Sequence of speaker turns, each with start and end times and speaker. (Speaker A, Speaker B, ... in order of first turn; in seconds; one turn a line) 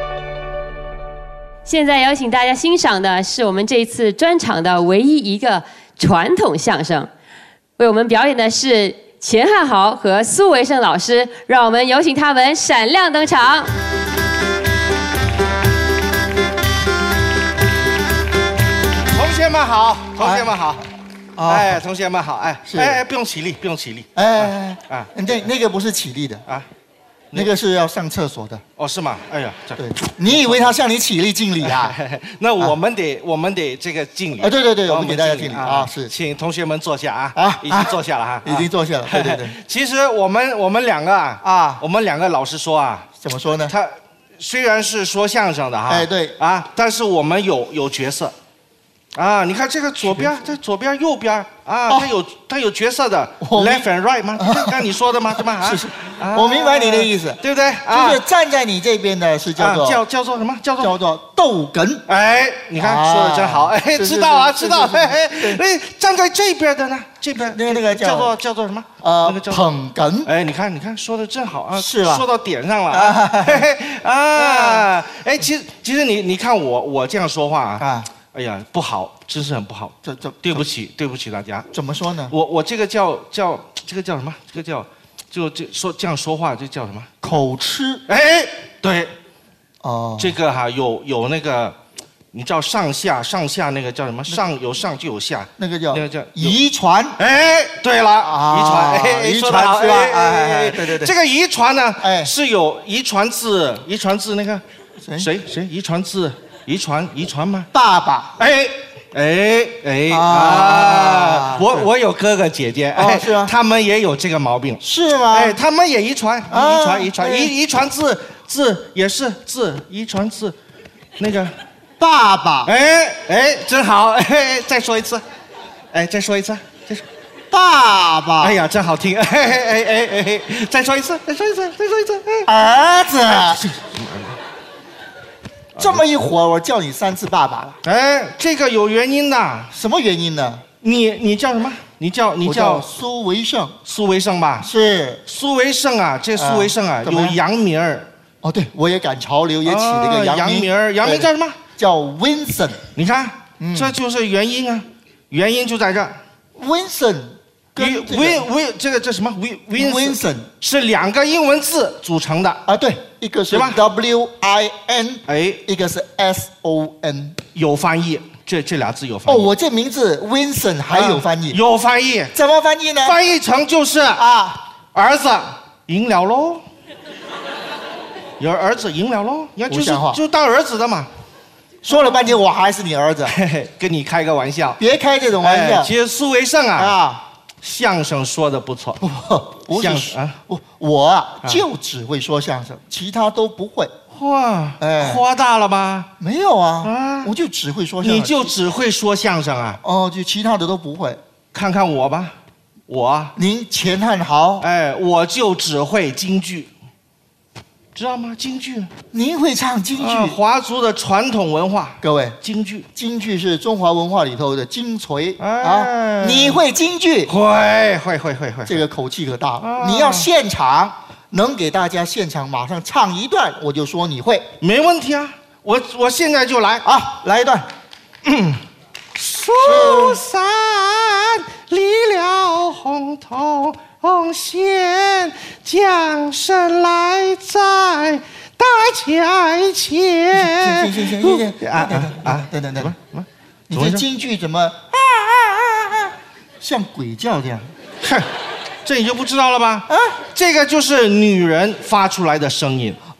Speaker A: 1.6-7.1
Speaker A: 7.8-13.7
Speaker B: 19.1-20.8
Speaker C: 20.2-20.5
Speaker C: 21.4-21.8
Speaker B: 21.4-25.4
Speaker C: 22.6-23.0
Speaker C: 24.1-26.4
Speaker C: 27.3-28.6
Speaker B: 28.8-30.8
Speaker C: 29.8-32.0
Speaker B: 31.6-43.1
Speaker C: 34.4-36.1
Speaker C: 37.3-39.5
Speaker C: 41.4-41.8
Speaker C: 43.2-43.7
Speaker B: 43.7-48.3
Speaker C: 45.9-46.4
Speaker B: 49.1-58.2
Speaker C: 50.0-50.3
Speaker C: 53.4-54.9
Speaker C: 55.5-60.0
Speaker B: 59.5-61.0
Speaker C: 60.8-62.0
Speaker B: 62.0-69.6
Speaker C: 62.8-65.6
Speaker C: 67.3-68.3
Speaker C: 69.0-70.3
Speaker B: 70.2-81.7
Speaker C: 71.7-72.2
Speaker C: 72.9-73.7
Speaker C: 74.3-74.9
Speaker C: 77.8-78.1
Speaker C: 80.0-80.6
Speaker C: 81.7-82.3
Speaker B: 82.3-87.1
Speaker C: 87.2-88.0
Speaker B: 88.1-89.1
Speaker C: 89.8-90.3
Speaker B: 90.2-91.8
Speaker B: 92.3-96.6
Speaker C: 95.6-97.2
Speaker B: 97.2-104.6
Speaker C: 98.2-101.1
Speaker C: 102.0-102.3
Speaker C: 105.0-105.3
Speaker B: 105.2-107.7
Speaker C: 107.7-108.4
Speaker B: 108.4-120.5
Speaker C: 110.1-111.9
Speaker C: 112.9-113.5
Speaker C: 114.8-115.6
Speaker C: 116.5-117.5
Speaker B: 121.2-121.5
Speaker C: 122.0-122.7
Speaker B: 122.6-125.2
Speaker B: 125.9-127.0
Speaker C: 127.5-128.6
Speaker B: 128.4-132.5
Speaker C: 132.4-133.6
Speaker B: 133.3-134.4
Speaker B: 135.8-136.0
Speaker C: 135.8-137.8
Speaker B: 137.8-139.7
Speaker C: 139.7-140.6
Speaker B: 140.8-142.8
Speaker C: 142.4-143.8
Speaker B: 143.8-144.7
Speaker C: 144.6-145.2
Speaker B: 145.2-148.1
Speaker C: 146.3-147.4
Speaker C: 148.4-152.8
Speaker B: 149.6-151.6
Speaker B: 152.9-156.2
Speaker C: 153.6-153.9
Speaker C: 156.6-158.4
Speaker B: 157.8-162.6
Speaker C: 159.7-160.5
Speaker C: 162.7-167.4
Speaker B: 163.5-163.8
Speaker B: 165.3-165.6
Speaker B: 167.5-169.5
Speaker C: 169.2-171.6
Speaker B: 170.9-172.3
Speaker C: 172.3-173.2
Speaker B: 173.0-174.2
Speaker C: 174.1-174.6
Speaker B: 174.9-176.6
Speaker B: 178.4-181.1
Speaker C: 179.7-180.2
Speaker C: 181.8-183.3
Speaker B: 181.9-182.3
Speaker B: 183.2-184.8
Speaker C: 184.8-185.9
Speaker B: 185.4-187.0
Speaker C: 186.8-187.2
Speaker B: 187.6-189.0
Speaker C: 189.0-193.9
Speaker B: 189.7-190.4
Speaker B: 194.1-196.1
Speaker C: 194.8-195.2
Speaker C: 196.2-198.5
Speaker B: 196.8-197.3
Speaker B: 198.0-199.8
Speaker C: 199.8-201.2
Speaker B: 201.5-202.3
Speaker B: 202.9-203.3
Speaker C: 203.3-204.7
Speaker B: 204.6-206.7
Speaker B: 207.9-208.9
Speaker C: 209.1-210.4
Speaker B: 209.9-212.8
Speaker C: 212.0-212.4
Speaker C: 212.9-217.3
Speaker B: 215.4-216.6
Speaker B: 217.2-218.8
Speaker C: 218.7-224.5
Speaker B: 219.6-220.3
Speaker B: 224.6-226.8
Speaker C: 226.8-227.7
Speaker B: 228.2-228.6
Speaker B: 229.2-244.0
Speaker C: 229.6-230.2
Speaker C: 240.3-242.9
Speaker C: 243.7-247.7
Speaker B: 248.0-248.3
Speaker B: 248.8-253.0
Speaker C: 249.9-250.2